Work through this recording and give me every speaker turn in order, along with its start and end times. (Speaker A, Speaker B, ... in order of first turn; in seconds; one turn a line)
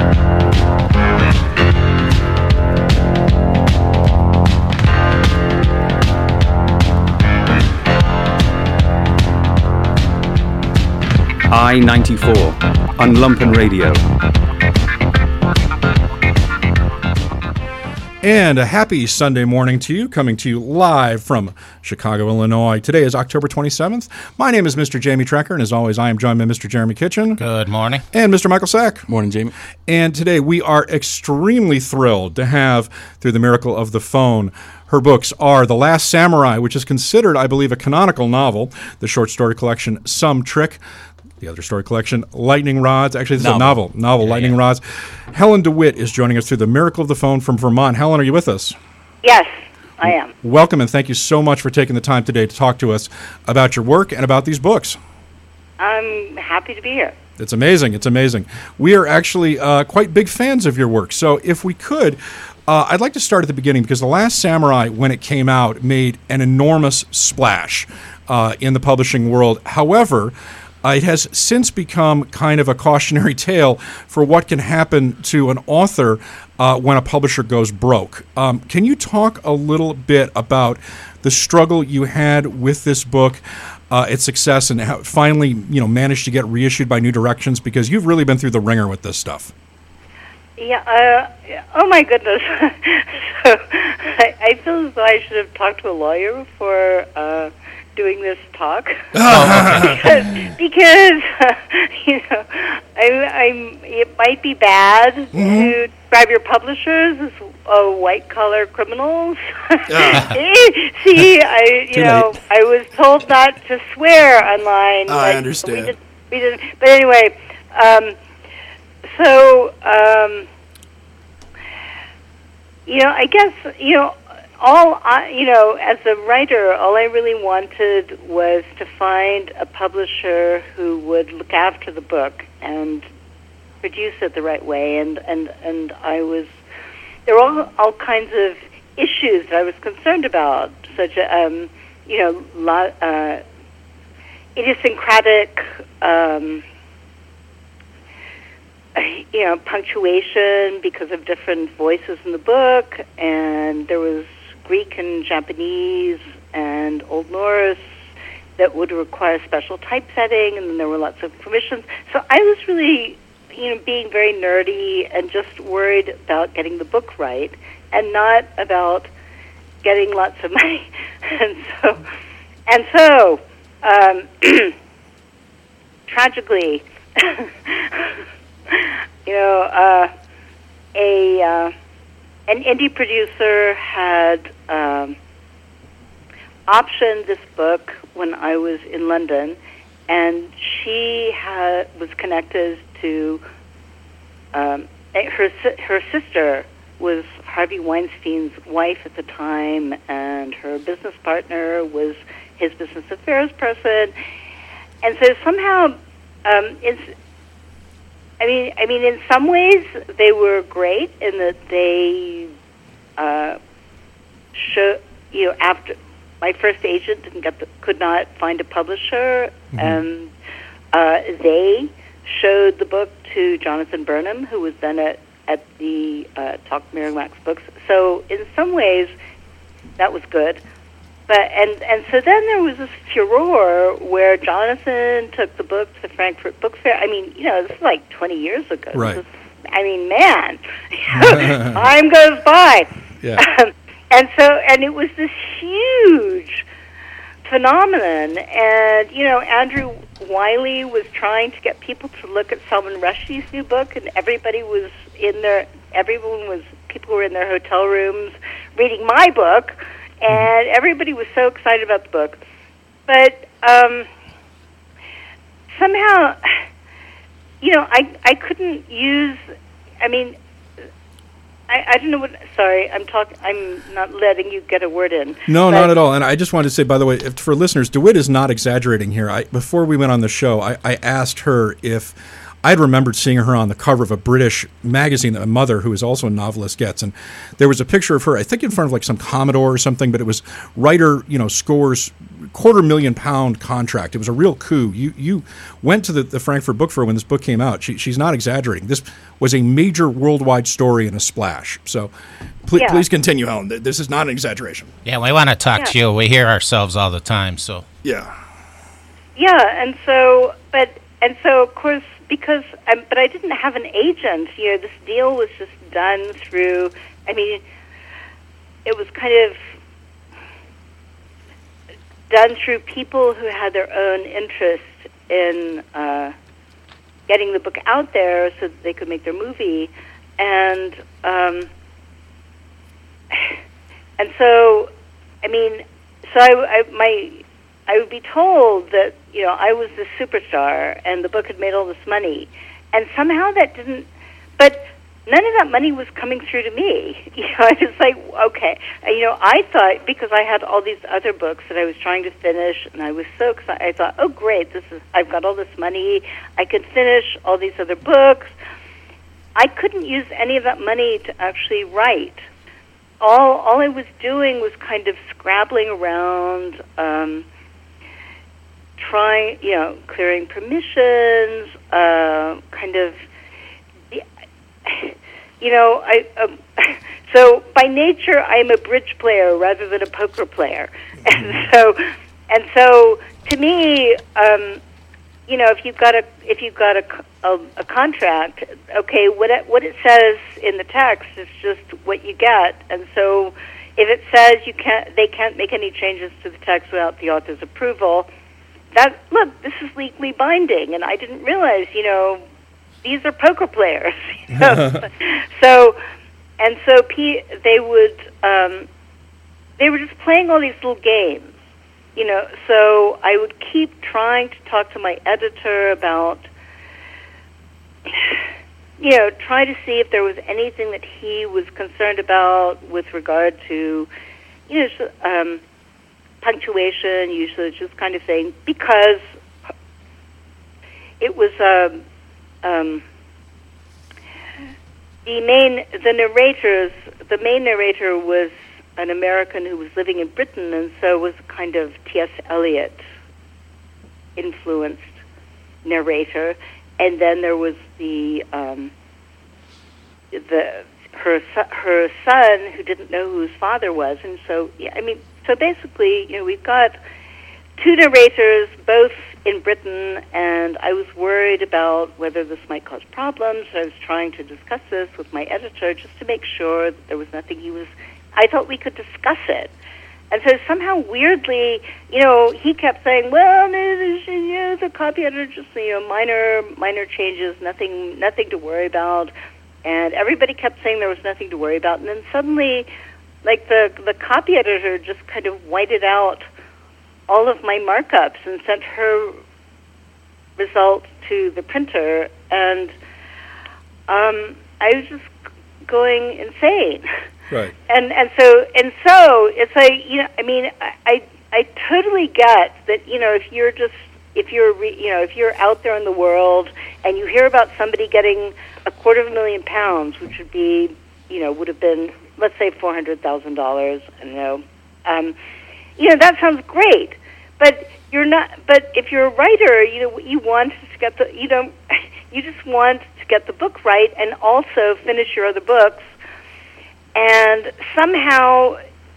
Speaker A: 11.5-14.0
Speaker B: 18.2-27.4
Speaker C: 27.4-28.0
Speaker B: 28.1-29.1
Speaker D: 29.1-29.5
Speaker B: 29.9-40.8
Speaker B: 41.4-48.8
Speaker D: 43.4-44.5
Speaker E: 49.2-50.3
Speaker B: 50.4-55.0
Speaker E: 55.8-57.1
Speaker B: 57.4-89.5
Speaker E: 90.6-118.2
Speaker B: 99.2-100.0
Speaker C: 99.2-100.0
Speaker B: 105.3-105.7
Speaker B: 109.9-110.2
Speaker D: 112.0-112.3
Speaker B: 115.1-115.9
Speaker E: 119.0-120.5
Speaker E: 122.9-133.0
Speaker E: 133.8-136.5
Speaker E: 137.2-143.4
Speaker E: 144.6-146.6
Speaker E: 148.9-157.9
Speaker E: 158.6-169.1
Speaker E: 169.8-172.0
Speaker E: 172.7-174.7
Speaker E: 176.1-178.1
Speaker E: 178.7-180.1
Speaker E: 180.9-181.7
Speaker E: 182.5-185.2
Speaker E: 186.7-189.6
Speaker E: 190.1-193.4
Speaker E: 194.5-204.1
Speaker E: 205.0-207.1
Speaker E: 208.4-212.5
Speaker E: 213.2-213.6
Speaker E: 214.5-220.3
Speaker B: 219.7-220.0
Speaker E: 220.9-229.1
Speaker E: 230.0-230.6
Speaker E: 231.3-246.6
Speaker B: 238.9-239.2
Speaker B: 241.2-241.8
Speaker E: 247.4-262.4
Speaker E: 263.1-264.1
Speaker E: 265.7-266.5
Speaker E: 267.6-269.4
Speaker E: 270.0-270.4
Speaker E: 271.7-275.9
Speaker B: 275.5-302.1
Speaker B: 302.6-304.9
Speaker E: 302.8-303.0
Speaker C: 305.0-307.8
Speaker B: 308.0-308.3
Speaker E: 309.4-317.6
Speaker E: 318.8-319.6
Speaker E: 322.3-326.3
Speaker E: 327.3-331.7
Speaker E: 334.2-334.9
Speaker E: 335.4-344.1
Speaker E: 344.6-358.5
Speaker E: 359.5-362.4
Speaker E: 363.2-367.4
Speaker E: 369.0-373.2
Speaker E: 374.8-384.8
Speaker E: 385.5-398.3
Speaker E: 398.9-402.4
Speaker E: 403.0-406.0
Speaker B: 404.6-405.0
Speaker E: 406.6-408.9
Speaker E: 409.8-411.6
Speaker E: 412.1-416.5
Speaker E: 418.1-418.3
Speaker E: 419.0-424.1
Speaker E: 424.7-425.6
Speaker E: 426.4-429.2
Speaker E: 431.2-432.0
Speaker E: 432.6-433.0
Speaker E: 435.2-443.0
Speaker E: 444.4-445.2
Speaker E: 445.8-448.9
Speaker E: 450.3-456.9
Speaker E: 457.8-469.7
Speaker E: 470.3-479.3
Speaker E: 479.8-482.9
Speaker E: 483.4-486.4
Speaker E: 487.3-489.4
Speaker E: 490.6-492.9
Speaker E: 494.1-495.3
Speaker E: 495.9-497.0
Speaker E: 497.9-515.3
Speaker E: 516.0-526.1
Speaker E: 527.1-528.8